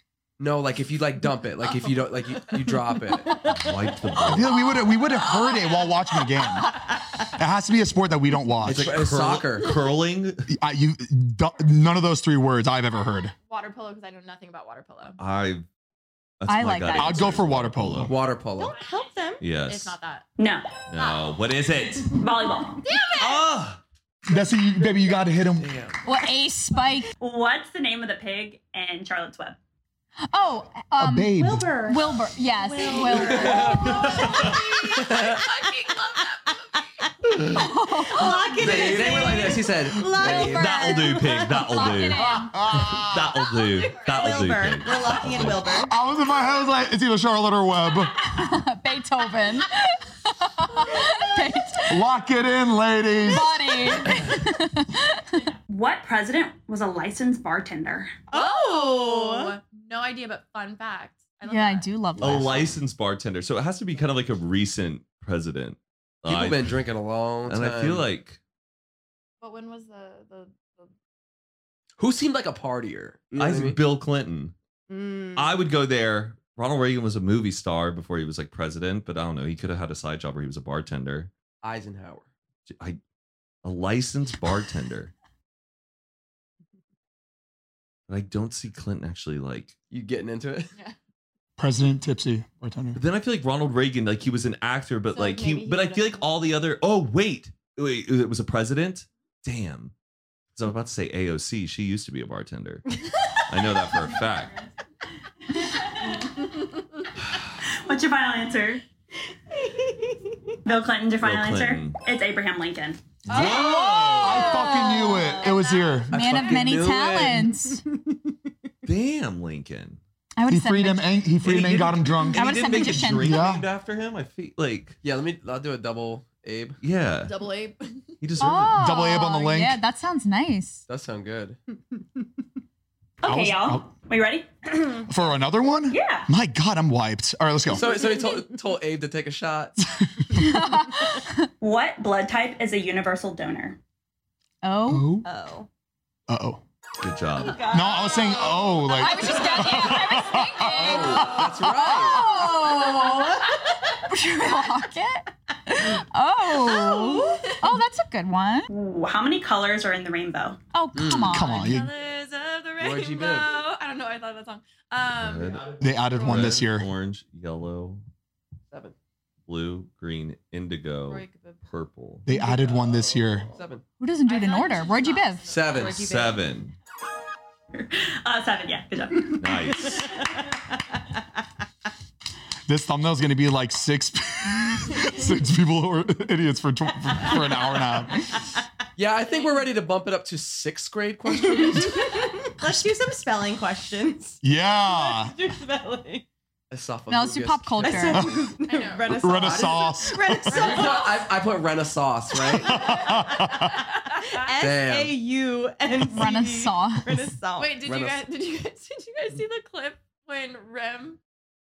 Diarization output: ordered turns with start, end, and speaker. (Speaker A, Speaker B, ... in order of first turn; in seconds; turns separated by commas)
Speaker A: 0.4-3.3, Speaker B: 1.6-2.5, Speaker C: 3.5-4.6, Speaker D: 4.2-6.8, Speaker B: 5.0-5.6, Speaker D: 7.4-9.0, Speaker A: 8.6-9.8, Speaker C: 8.7-10.5, Speaker D: 10.5-13.3, Speaker B: 13.4-15.2, Speaker C: 15.2-15.6, Speaker C: 16.4-18.1, Speaker E: 16.5-17.4, Speaker D: 16.9-18.1, Speaker A: 18.1-18.8, Speaker F: 18.6-19.4, Speaker C: 19.4-19.9, Speaker B: 19.5-20.2, Speaker G: 20.4-20.8, Speaker C: 20.9-22.2, Speaker G: 22.1-22.8, Speaker B: 22.8-23.4, Speaker C: 23.2-23.8, Speaker D: 24.3-25.7, Speaker A: 25.6-26.0, Speaker E: 26.0-27.1, Speaker G: 27.2-29.6, Speaker E: 30.3-34.0, Speaker D: 30.9-31.7, Speaker F: 31.4-35.0, Speaker B: 33.4-36.8, Speaker C: 33.8-34.5, Speaker F: 37.3-42.0, Speaker E: 37.5-38.9, Speaker A: 38.6-41.0, Speaker C: 38.8-39.6, Speaker C: 40.2-45.7, Speaker E: 41.5-42.6, Speaker D: 42.4-43.4, Speaker B: 43.7-44.3, Speaker F: 44.0-45.9, Speaker D: 45.8-48.2, Speaker E: 48.2-52.0, Speaker D: 51.9-53.6, Speaker E: 53.2-55.4, Speaker G: 55.7-58.2, Speaker F: 58.3-59.5, Speaker B: 58.3-62.5, Speaker E: 61.5-62.7, Speaker C: 62.2-66.8, Speaker A: 66.3-68.0, Speaker C: 67.5-68.4, Speaker B: 69.4-70.9, Speaker A: 72.0-73.8, Speaker C: 73.3-74.5, Speaker F: 74.9-75.6, Speaker C: 75.3-81.3, Speaker A: 81.6-82.3, Speaker C: 82.7-83.0, Speaker C: 83.6-85.1, Speaker C: 88.1-89.7, Speaker A: 89.9-90.7, Speaker D: 91.6-93.0, Speaker C: 92.9-99.9, Speaker B: 95.1-96.3, Speaker C: 100.5-102.9, Speaker C: 103.4-104.5, Speaker G: 107.8-108.8, Speaker F: 109.5-110.5, Speaker G: 110.7-113.1, Speaker C: 111.2-112.0, Speaker C: 113.3-114.5, Speaker B: 113.3-114.2, Speaker E: 113.3-115.3, Speaker D: 114.2-116.2, Speaker F: 114.9-116.0, Speaker A: 116.1-118.0, Speaker E: 116.1-117.8, Speaker C: 118.8-120.0, Speaker E: 120.4-121.3, Speaker D: 120.5-123.7, Speaker C: 121.4-125.0, Speaker E: 122.3-123.4, Speaker A: 125.0-126.8, Speaker C: 126.8-127.3, Speaker B: 127.2-128.0, Speaker C: 128.2-128.8, Speaker E: 128.4-130.8, Speaker D: 128.8-129.8, Speaker A: 130.9-131.6, Speaker G: 133.2-135.1, Speaker D: 133.2-133.9, Speaker D: 135.1-137.9, Speaker G: 135.9-136.3, Speaker A: 137.7-139.8, Speaker F: 137.8-138.5, Speaker E: 140.3-141.5, Speaker G: 141.6-143.8, Speaker E: 144.6-145.1, Speaker D: 144.9-145.2, Speaker F: 145.2-145.7, Speaker D: 146.3-146.6, Speaker C: 147.0-147.6, Speaker F: 147.4-149.0, Speaker D: 147.7-150.9, Speaker E: 148.9-153.5, Speaker A: 150.7-152.3, Speaker E: 154.1-158.7, Speaker G: 158.7-160.6, Speaker E: 160.7-161.7, Speaker A: 160.9-161.3, Speaker D: 161.3-161.9, Speaker B: 161.3-166.5, Speaker A: 162.8-163.6, Speaker C: 165.1-168.0, Speaker D: 165.8-166.9, Speaker C: 169.5-172.2, Speaker B: 171.1-171.6, Speaker D: 172.2-173.5, Speaker A: 173.5-173.8, Speaker E: 174.0-175.4, Speaker B: 174.2-176.1, Speaker A: 175.4-175.9, Speaker F: 175.7-176.4, Speaker C: 175.9-176.7, Speaker G: 177.7-180.2, Speaker C: 179.3-180.1, Speaker D: 182.7-188.2, Speaker A: 189.0-192.1, Speaker B: 189.2-189.6, Speaker F: 191.3-196.2, Speaker D: 194.4-195.3, Speaker A: 196.7-198.4, Speaker E: 197.1-198.3, Speaker F: 197.8-201.3, Speaker B: 198.6-199.3, Speaker D: 199.2-200.6, Speaker A: 199.3-199.8, Speaker B: 200.5-201.2, Speaker A: 200.5-202.8, Speaker D: 202.6-203.7, Speaker B: 202.9-204.5, Speaker F: 204.3-207.8, Speaker A: 204.6-205.2, Speaker E: 206.1-207.2, Speaker B: 207.6-211.2, Speaker A: 207.8-208.2